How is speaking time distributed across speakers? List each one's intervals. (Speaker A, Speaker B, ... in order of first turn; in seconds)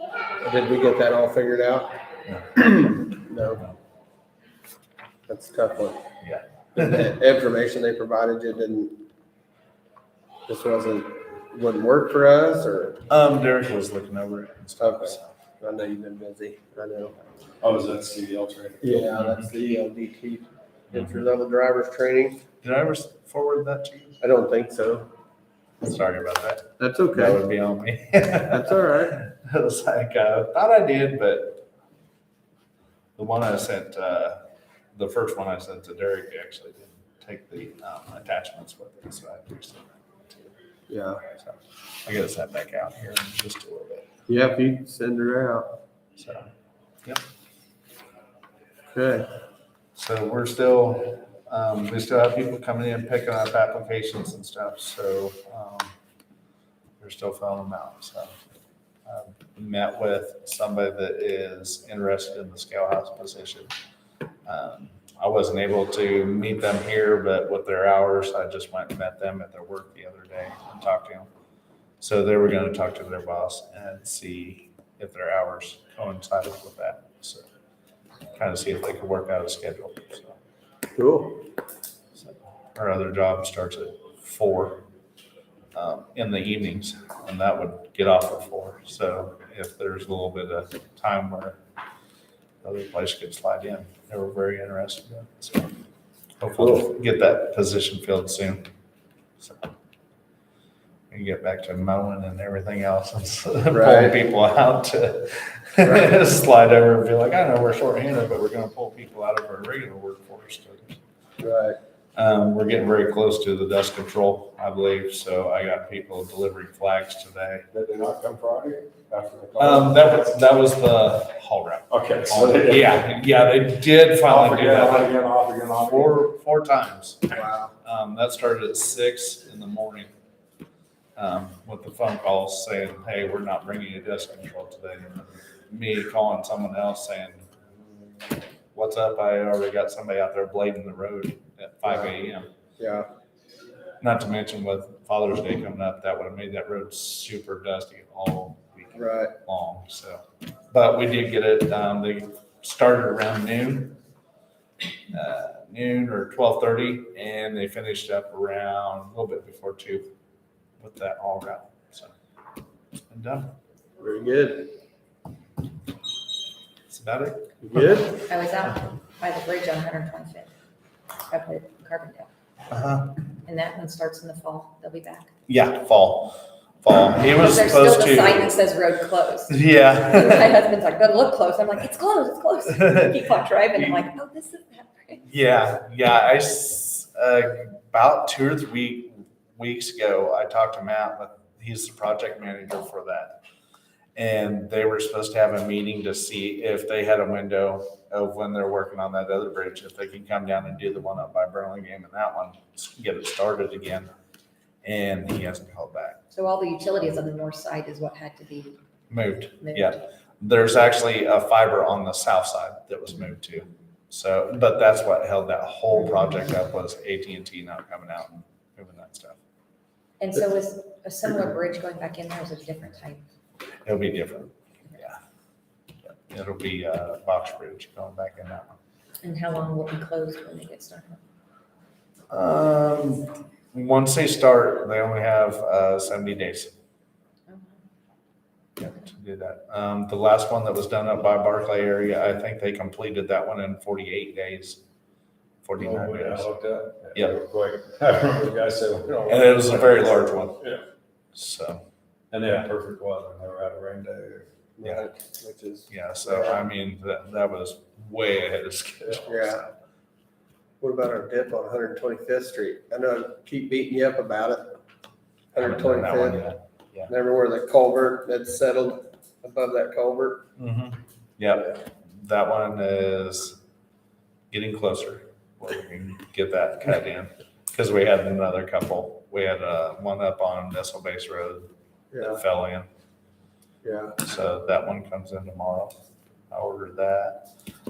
Speaker A: 0.4-1.9, 2.5-3.6, 5.3-6.0, 6.8-9.0, 10.5-13.0, 14.8-17.1, 18.8-22.4, 24.2-25.1, 26.8-27.4, 28.5-29.1, 40.9-41.2, 44.3-45.8, 48.9-49.3, 80.9-81.4, 96.6-96.9, 103.7-104.1, 105.8-106.1, 111.4-111.8, 127.3-127.7, 141.8-142.1, 142.8-143.1, 148.9-149.3, 164.0-164.7, 167.6-168.1, 254.8-256.6, 259.2-259.6, 260.8-264.7, 265.5-266.4, 267.1-270.4, 282.1-282.4, 283.8-284.2
Speaker B: 6.2-7.0, 13.1-15.3, 19.1-19.5, 20.9-21.2, 22.6-24.2, 25.8-31.6, 33.2-34.4, 34.9-40.5, 41.4-44.1, 46.2-46.5, 50.0-55.9, 57.0-58.3, 59.0-63.7, 64.5-71.3, 72.0-77.4, 78.3-80.4, 82.2-84.8, 85.8-91.6, 92.6-95.7, 96.4-98.7, 99.4-99.7, 101.1-111.0, 112.2-117.6, 119.6-125.2, 125.8-127.2, 127.8-130.1, 131.2-137.4, 138.7-142.5, 144.0-153.9, 155.1-160.1, 160.8-162.1, 163.1-163.5, 166.9-168.0, 172.7-173.2, 175.5-178.5, 179.5-180.6, 185.2-193.4, 194.2-204.1, 204.8-206.2, 209.1-219.4, 223.8-225.2, 226.0-228.7, 232.3-236.7, 238.8-244.8, 245.6-246.5, 247.1-247.4, 249.3-250.7, 251.3-251.8, 255.9-259.7, 265.6-267.1, 270.6-273.6, 274.5-281.7, 282.2-282.9, 284.2-285.9, 286.5-287.4
Speaker C: 17.6-19.1, 117.7-120.4, 121.9-123.0, 124.2-126.2, 245.8-250.8, 252.3-254.5
Speaker D: 168.3-170.5, 171.3-172.3, 173.4-175.3, 177.4-185.2, 206.3-208.8, 209.6-209.9, 220.2-223.2, 229.2-231.2, 237.5-237.8